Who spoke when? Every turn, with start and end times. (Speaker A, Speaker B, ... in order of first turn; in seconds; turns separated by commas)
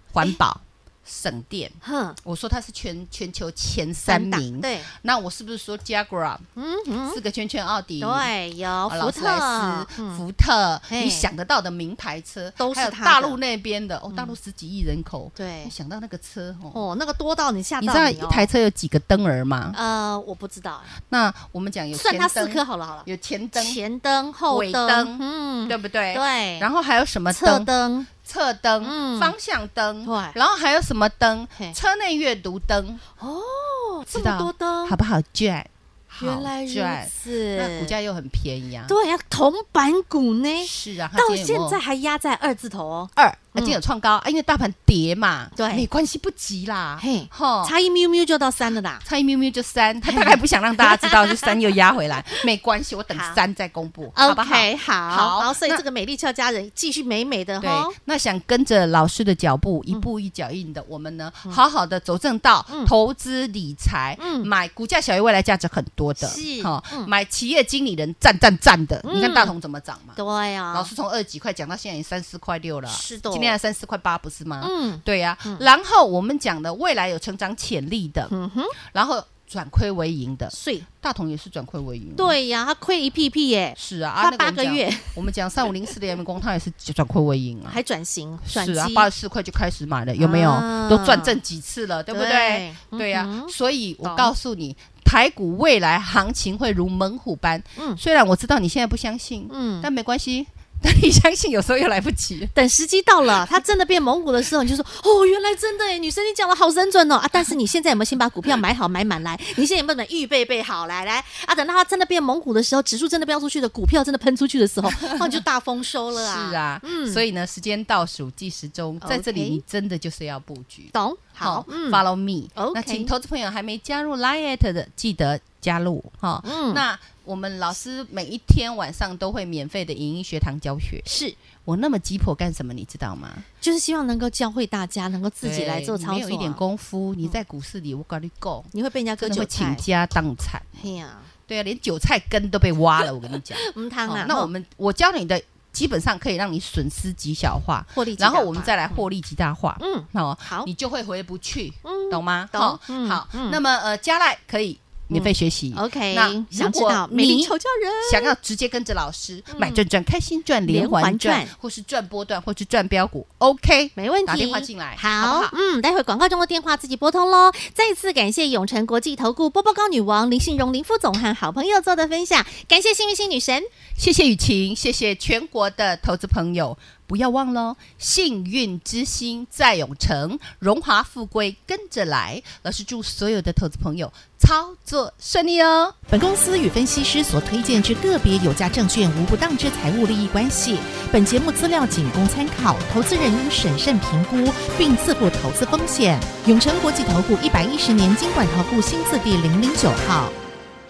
Speaker A: 0.1-6.5, Speaker B: 1.8-2.2, Speaker B: 4.1-4.9, Speaker B: 6.6-7.2, Speaker A: 7.1-8.3, Speaker B: 8.0-10.2, Speaker A: 8.9-16.8, Speaker B: 10.9-11.3, Speaker B: 12.6-13.4, Speaker B: 14.1-14.4, Speaker B: 15.4-15.7, Speaker B: 16.7-18.5, Speaker A: 17.8-19.8, Speaker B: 19.7-20.9, Speaker A: 21.0-23.8, Speaker B: 21.9-26.7, Speaker A: 24.5-33.0, Speaker B: 27.3-28.1, Speaker B: 28.8-29.3, Speaker B: 30.1-30.4, Speaker B: 33.2-35.0, Speaker A: 34.1-39.0, Speaker B: 36.2-37.9, Speaker B: 38.9-43.8, Speaker A: 40.6-41.8, Speaker A: 43.1-47.7, Speaker B: 45.5-45.9, Speaker B: 47.0-49.0, Speaker A: 49.0-55.8, Speaker B: 50.0-51.5, Speaker B: 53.1-53.4, Speaker B: 54.1-58.0, Speaker A: 57.6-70.2, Speaker B: 64.2-64.5, Speaker B: 66.2-67.1, Speaker B: 69.0-69.5, Speaker B: 70.2-70.9, Speaker A: 70.7-82.4, Speaker B: 72.9-73.6, Speaker B: 74.6-75.7, Speaker B: 78.3-78.8, Speaker B: 80.5-80.9, Speaker B: 82.2-85.2, Speaker A: 83.8-87.8, Speaker B: 87.7-89.1, Speaker A: 88.4-102.5, Speaker B: 90.2-91.4, Speaker B: 92.1-94.3, Speaker B: 99.5-99.9, Speaker B: 102.5-117.2, Speaker A: 114.8-115.4, Speaker A: 116.1-131.1, Speaker B: 119.0-119.6, Speaker B: 120.9-122.0, Speaker B: 122.6-123.1, Speaker B: 126.4-126.8, Speaker B: 131.1-131.4, Speaker A: 131.7-133.4, Speaker B: 133.6-136.6, Speaker A: 135.4-140.9, Speaker B: 138.7-139.8, Speaker B: 140.8-141.3, Speaker A: 141.5-165.5, Speaker B: 143.6-144.5, Speaker B: 147.9-149.1, Speaker B: 149.8-150.7, Speaker B: 151.8-153.6, Speaker B: 155.1-158.3, Speaker B: 159.5-159.8, Speaker B: 160.7-161.6, Speaker B: 164.0-173.7, Speaker A: 174.0-185.9, Speaker C: 186.1-200.3